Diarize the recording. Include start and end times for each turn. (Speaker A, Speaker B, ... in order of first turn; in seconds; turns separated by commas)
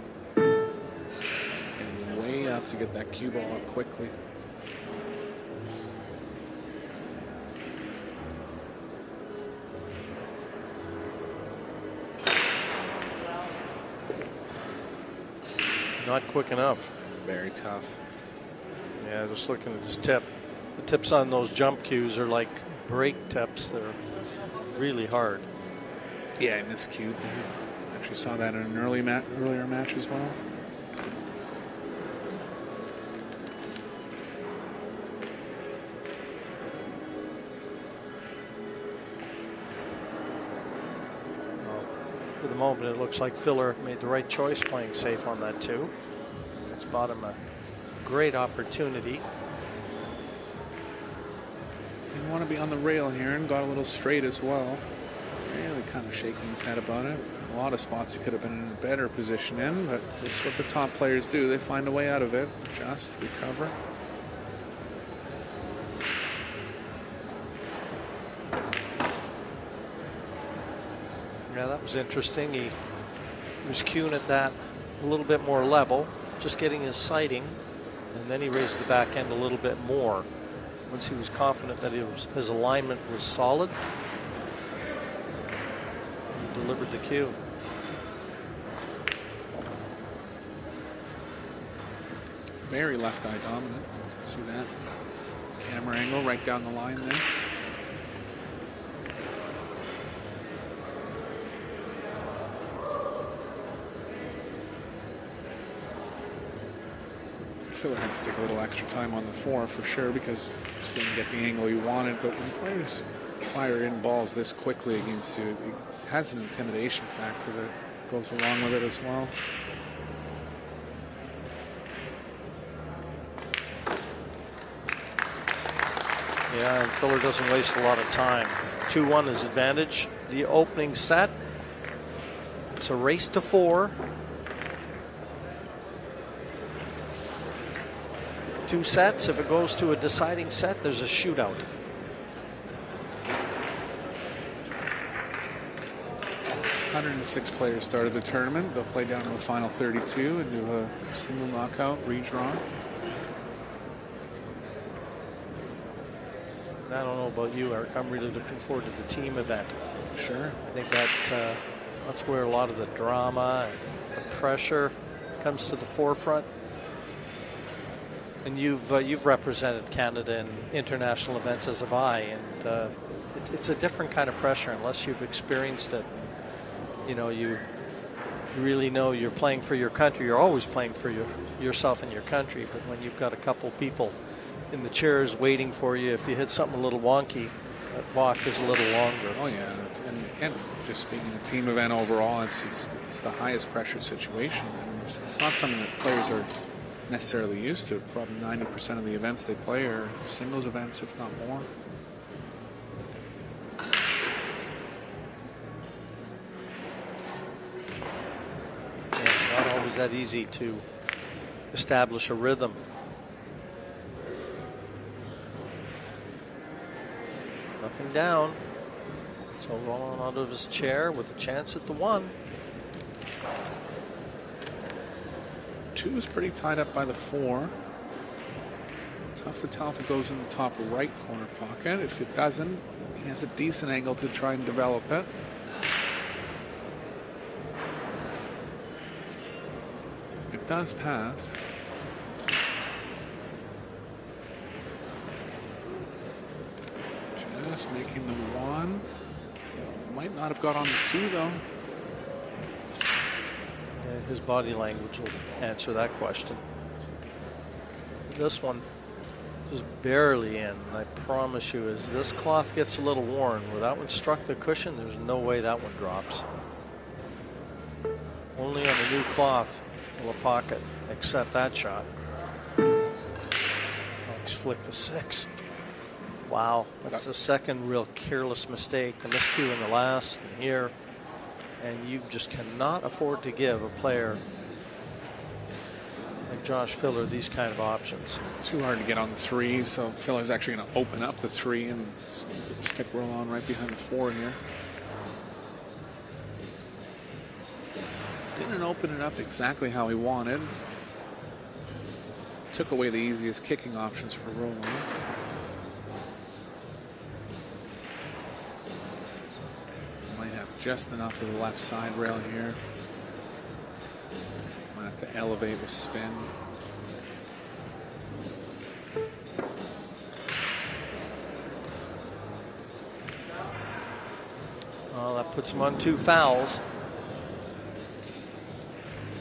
Speaker A: 1.7-4.1, Speaker B: 16.0-16.9, Speaker A: 17.2-18.0, Speaker B: 19.0-24.0, Speaker B: 24.7-25.4, Speaker A: 26.4-30.4, Speaker B: 41.6-45.9, Speaker B: 46.7-47.4, Speaker B: 48.0-49.2, Speaker A: 52.1-54.8, Speaker A: 55.4-63.7, Speaker B: 71.5-72.8, Speaker B: 73.6-77.6, Speaker B: 78.1-80.3, Speaker B: 80.9-83.7, Speaker B: 86.3-87.4, Speaker A: 92.6-94.7, Speaker A: 95.6-97.2, Speaker A: 107.7-119.3, Speaker B: 126.5-131.3, Speaker B: 132.7-134.0, Speaker B: 138.7-141.6, Speaker A: 146.9-152.6, Speaker B: 156.8-159.8, Speaker A: 160.1-160.6, Speaker B: 160.6-166.5, Speaker B: 168.4-176.1, Speaker B: 177.0-177.6, Speaker B: 178.5-184.2, Speaker B: 184.7-189.4, Speaker A: 189.3-196.5, Speaker A: 197.1-201.7, Speaker B: 209.2-210.8, Speaker B: 211.7-212.8, Speaker B: 217.8-218.6, Speaker B: 219.6-222.3, Speaker A: 225.9-227.7, Speaker A: 229.3-235.3, Speaker A: 240.5-241.6, Speaker A: 247.3-249.1, Speaker A: 249.7-251.6, Speaker B: 253.9-256.6, Speaker B: 258.3-258.9, Speaker B: 259.7-266.4, Speaker B: 268.5-272.1, Speaker B: 274.2-275.5, Speaker B: 276.4-280.9, Speaker B: 281.8-284.4, Speaker B: 286.5-288.4, Speaker A: 288.6-294.6, Speaker A: 298.5-300.7, Speaker A: 302.7-305.1, Speaker A: 310.3-312.8, Speaker A: 314.9-316.5, Speaker B: 325.1-326.8